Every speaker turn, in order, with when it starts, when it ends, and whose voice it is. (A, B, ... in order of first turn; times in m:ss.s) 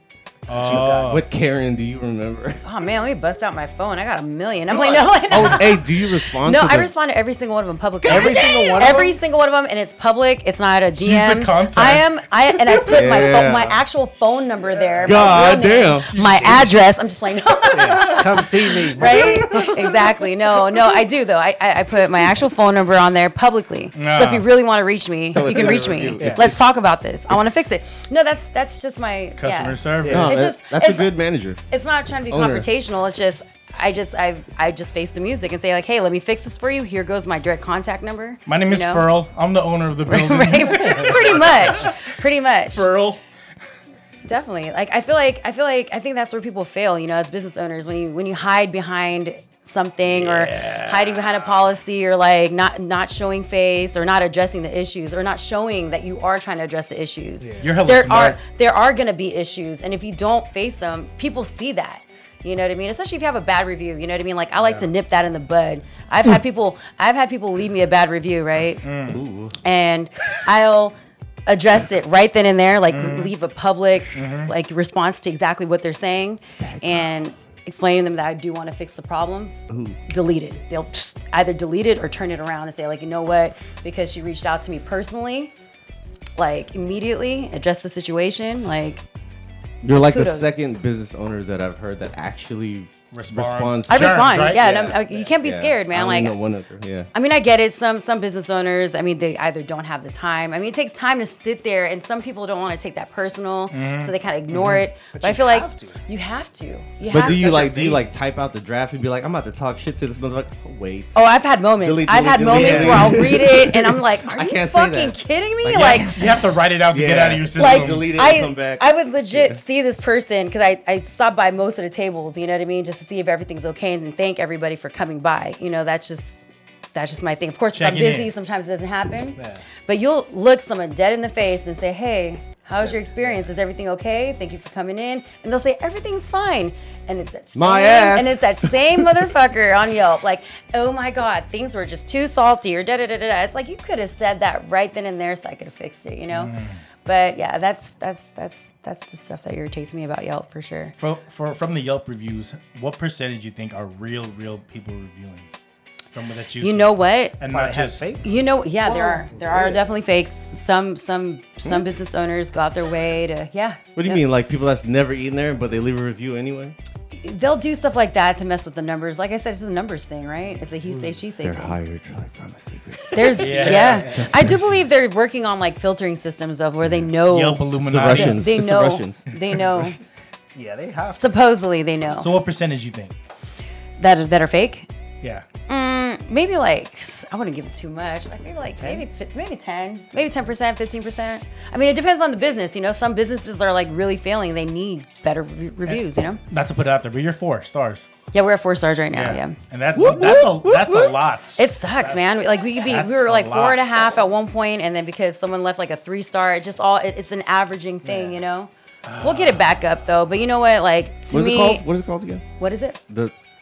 0:00.5-0:01.2 A
0:00.5-0:01.2 B
0:01.0-0:02.6 C
0:02.6-0:31.1 D
0:05.3-0:06.9 C
0:08.0-0:09.2 B
0:08.1-0:08.6 C
0:10.9-0:12.1 A
0:12.9-0:13.8 C
0:15.0-0:15.4 A
0:15.0-0:16.1 C
0:16.1-0:16.7 A
0:17.7-0:20.2 B
0:23.9-0:24.5 A
0:25.3-0:26.6 C
0:29.4-0:30.3 A
0:30.0-0:30.3 B
0:30.1-0:31.6 C
0:31.7-0:39.1 D
0:32.3-0:32.7 C
0:38.4-0:42.1 A
0:40.1-0:42.9 D
0:42.7-0:43.2 A
0:44.2-1:08.8 D
0:50.1-0:51.6 A
0:57.4-0:57.8 B
0:57.6-0:58.4 A
1:04.6-1:04.9 A
1:08.8-1:09.2 A
1:09.1-1:09.6 C
1:09.6-1:19.5 D
1:12.9-1:13.3 A
1:14.1-1:14.5 A
1:16.6-1:17.0 C
1:19.7-1:20.0 C
1:20.1-1:25.5 D
1:26.4-1:29.0 D
1:29.8-1:37.1 C
1:29.9-1:30.5 D
1:33.1-1:34.9 A
1:33.9-1:36.4 D
1:34.6-1:35.3 B
1:37.1-1:48.0 D
1:43.7-1:44.8 A
1:45.1-1:46.0 B
1:47.0-1:51.2 C
1:47.1-1:48.0 A
1:47.4-1:47.9 B
1:51.1-1:56.1 D
1:51.8-1:59.6 C
1:52.5-1:53.1 A
1:55.7-1:58.1 A
1:57.5-2:30.9 D
2:07.7-2:08.3 A
2:09.4-2:09.6 B
2:12.8-2:13.5 B
2:17.5-2:19.2 C
2:26.3-2:26.8 A
2:31.0-2:35.5 A
2:36.1-2:38.0 A
2:36.6-2:37.4 D
2:37.5-2:39.9 B
2:38.2-2:44.2 D
2:44.0-2:46.7 C
2:47.1-2:51.7 D
2:50.9-2:54.8 C
2:53.1-3:00.0 D
2:53.3-2:54.2 A
2:53.5-2:54.2 B
2:57.3-2:58.4 A
2:57.8-2:59.2 C
3:00.5-3:01.3 B
3:01.2-3:02.3 D
3:02.1-3:03.1 A
3:04.0-3:04.9 D
3:05.2-3:05.4 A
3:05.7-3:16.4 D
3:08.8-3:09.0 B
3:15.8-3:18.1 A
3:18.3-3:19.6 D
3:19.1-3:22.2 A
3:20.0-3:21.2 C
3:21.6-3:31.8 D
3:22.8-3:23.8 A
3:28.0-3:28.4 B
3:29.0-3:29.7 A
3:31.3-3:32.4 C
3:32.6-3:33.0 D